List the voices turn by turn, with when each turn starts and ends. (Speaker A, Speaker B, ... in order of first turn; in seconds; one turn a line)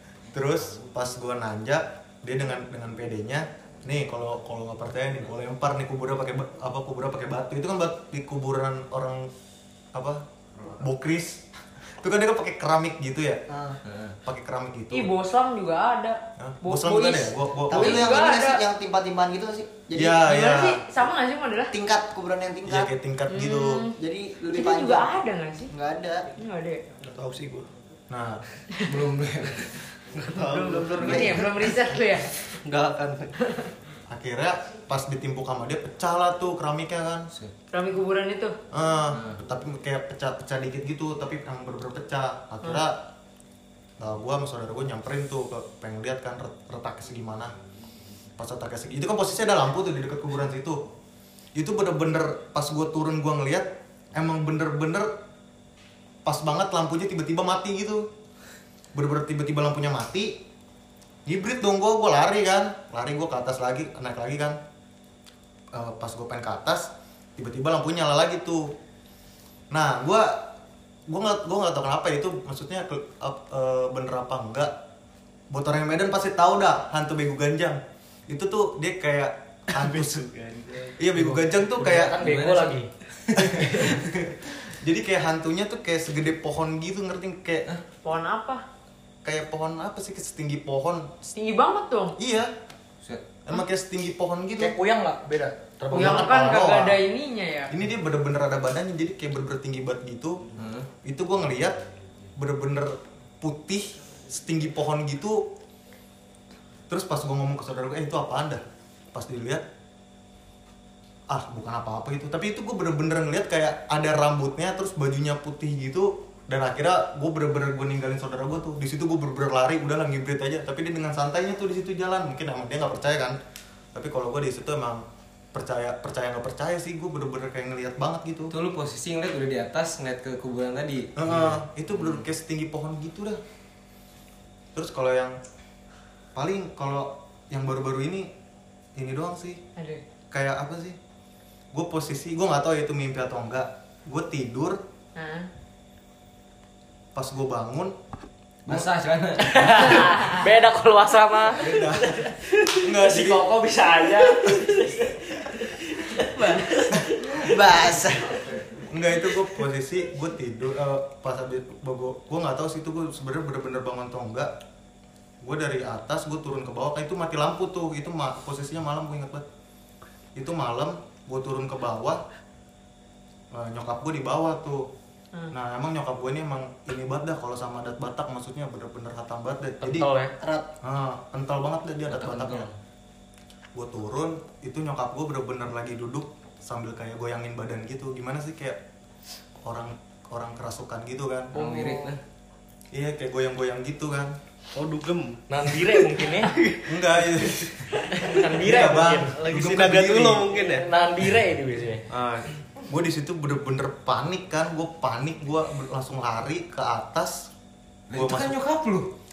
Speaker A: 0.3-9.3
Speaker A: 9.9-11.4
Speaker A: 12.0-13.4
Speaker B: 13.5-13.8
Speaker C: 13.8-14.2
Speaker A: 14.2-15.1
Speaker D: 14.9-18.6
Speaker A: 16.4-18.2
Speaker B: 17.7-20.2
Speaker A: 19.9-20.9
Speaker D: 20.2-21.7
Speaker B: 21.7-22.9
Speaker A: 22.6-23.9
Speaker D: 23.3-23.9
Speaker B: 23.9-25.1
Speaker D: 24.5-25.7
Speaker B: 25.7-26.3
Speaker D: 26.4-26.8
Speaker E: 27.0-27.7
Speaker A: 28.1-28.4
Speaker C: 28.8-29.9
Speaker E: 30.1-31.7
Speaker D: 30.3-32.4
Speaker C: 31.0-31.4
Speaker E: 32.5-33.3
Speaker D: 33.4-33.7
Speaker A: 34.1-37.3
Speaker D: 37.7-38.5
Speaker A: 38.7-43.0
Speaker C: 39.1-39.4
Speaker A: 44.0-47.5
Speaker A: 48.4-50.8
Speaker A: 51.5-55.1
Speaker A: 56.2-58.0
Speaker A: 58.9-60.4
Speaker A: 61.2-64.6
Speaker A: 65.7-68.7
Speaker A: 69.7-70.5
Speaker A: 71.1-74.7
Speaker A: 75.5-80.3
Speaker E: 79.8-80.9
Speaker A: 80.9-82.2
Speaker F: 81.2-84.0
Speaker C: 81.8-84.0
Speaker A: 83.4-87.7
Speaker D: 88.0-88.6
Speaker A: 89.2-91.3
Speaker D: 91.3-92.2
Speaker A: 92.2-92.5
Speaker A: 93.4-94.8
Speaker F: 94.6-96.6
Speaker A: 95.9-97.0
Speaker D: 95.9-97.7
Speaker A: 97.7-101.8
Speaker C: 100.5-100.9
Speaker A: 102.4-105.4
Speaker A: 106.9-108.6
Speaker A: 109.1-109.6
Speaker A: 111.3-123.4
Speaker A: 123.9-128.5
Speaker C: 128.5-132.2
Speaker A: 131.2-133.4
Speaker A: 134.7-135.4
Speaker A: 136.3-138.3
Speaker A: 138.9-139.6
Speaker D: 139.8-140.0
Speaker A: 140.3-141.0
Speaker A: 141.7-144.8
Speaker D: 145.2-145.5
Speaker A: 147.1-147.9
Speaker C: 148.7-150.1
Speaker F: 149.4-157.9
Speaker D: 149.8-150.4
Speaker A: 151.6-152.2
Speaker A: 152.8-153.5
Speaker A: 154.5-154.8
Speaker D: 156.3-156.9
Speaker A: 156.9-157.2
Speaker B: 157.3-158.4
Speaker A: 158.7-164.5
Speaker A: 165.4-169.4
Speaker A: 170.3-172.2
Speaker A: 173.5-174.8
Speaker A: 175.5-180.1
Speaker F: 179.8-180.3
Speaker B: 180.4-180.7
Speaker A: 180.8-182.7
Speaker C: 182.1-182.7
Speaker A: 183.7-188.8
Speaker A: 189.6-191.5
Speaker F: 191.5-192.1
Speaker C: 191.5-192.2
Speaker A: 192.9-194.4
Speaker E: 194.7-197.4
Speaker F: 195.5-196.5
Speaker A: 196.8-200.5
Speaker F: 198.1-199.4
Speaker E: 199.3-200.9
Speaker F: 200.6-202.1
Speaker A: 202.8-207.5
Speaker C: 208.1-209.1
Speaker A: 208.1-208.6